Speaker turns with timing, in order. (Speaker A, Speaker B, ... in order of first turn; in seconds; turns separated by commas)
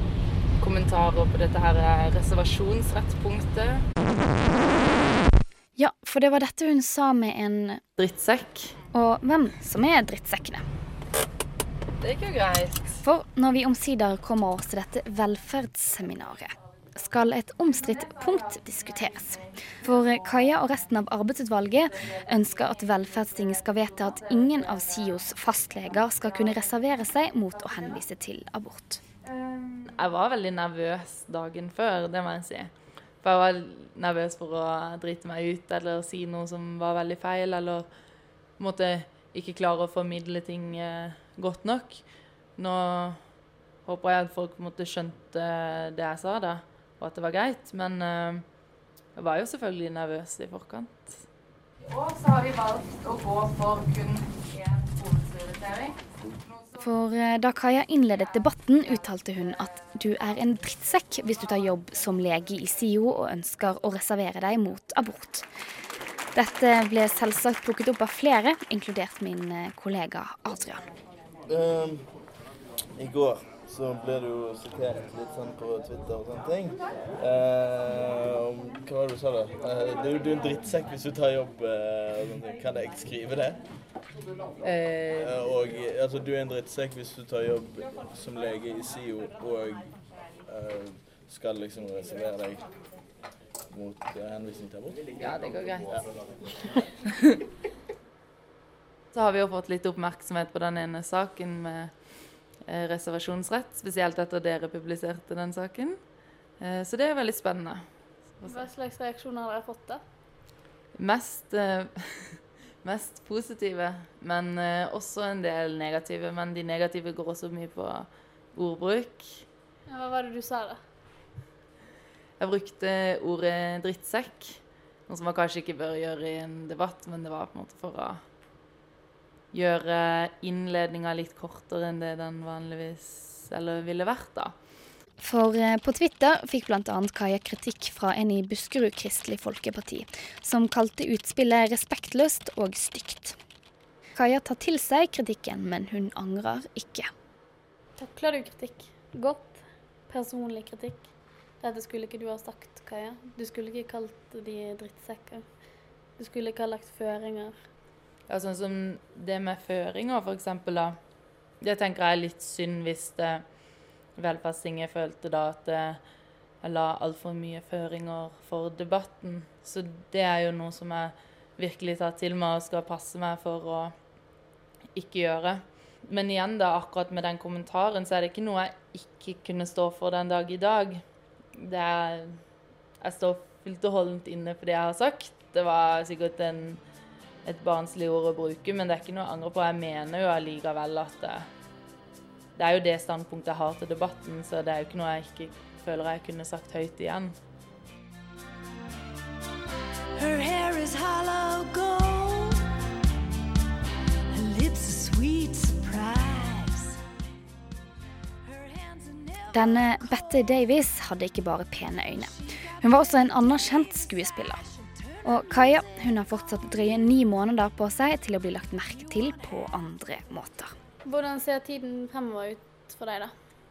Speaker A: 0.6-3.9, Speaker B: 5.8-7.8, Speaker A: 8.0-8.8, Speaker B: 8.9-10.6, Speaker A: 12.0-13.0, Speaker B: 13.0-29.0, Speaker A: 29.7-32.7, Speaker A: 33.2-37.9, Speaker A: 38.6-42.0, Speaker A: 42.6-43.2, Speaker A: 43.9-48.5, Speaker A: 49.1-51.2, Speaker A: 51.8-56.2, Speaker B: 56.8-65.5, Speaker B: 66.3-70.8, Speaker C: 71.5-72.2, Speaker C: 73.0-83.6, Speaker A: 84.6-85.3, Speaker C: 85.1-92.7, Speaker C: 93.7-95.4, Speaker A: 95.2-96.2, Speaker A: 99.1-102.0, Speaker A: 102.6-106.0, Speaker A: 106.6-107.8, Speaker D: 108.5-110.0, Speaker A: 111.0-119.5, Speaker D: 119.9-120.8, Speaker A: 122.4-128.2, Speaker A: 129.5-134.5, Speaker B: 135.2-143.4, Speaker B: 144.2-147.1, Speaker D: 148.0-151.1, Speaker D: 151.6-155.5, Speaker D: 156.2-157.6, Speaker A: 158.3-161.0, Speaker A: 161.6-163.4, Speaker A: 164.2-166.0, Speaker A: 166.6-173.9, Speaker A: 174.9-181.0, Speaker A: 181.5-182.4, Speaker A: 183.0-186.8, Speaker A: 187.4-191.5, Speaker A: 192.6-197.3, Speaker E: 200.1-202.8, Speaker E: 204.3-207.0, Speaker E: 208.4-210.0, Speaker B: 209.5-214.6, Speaker B: 215.2-220.7, Speaker D: 221.0-223.3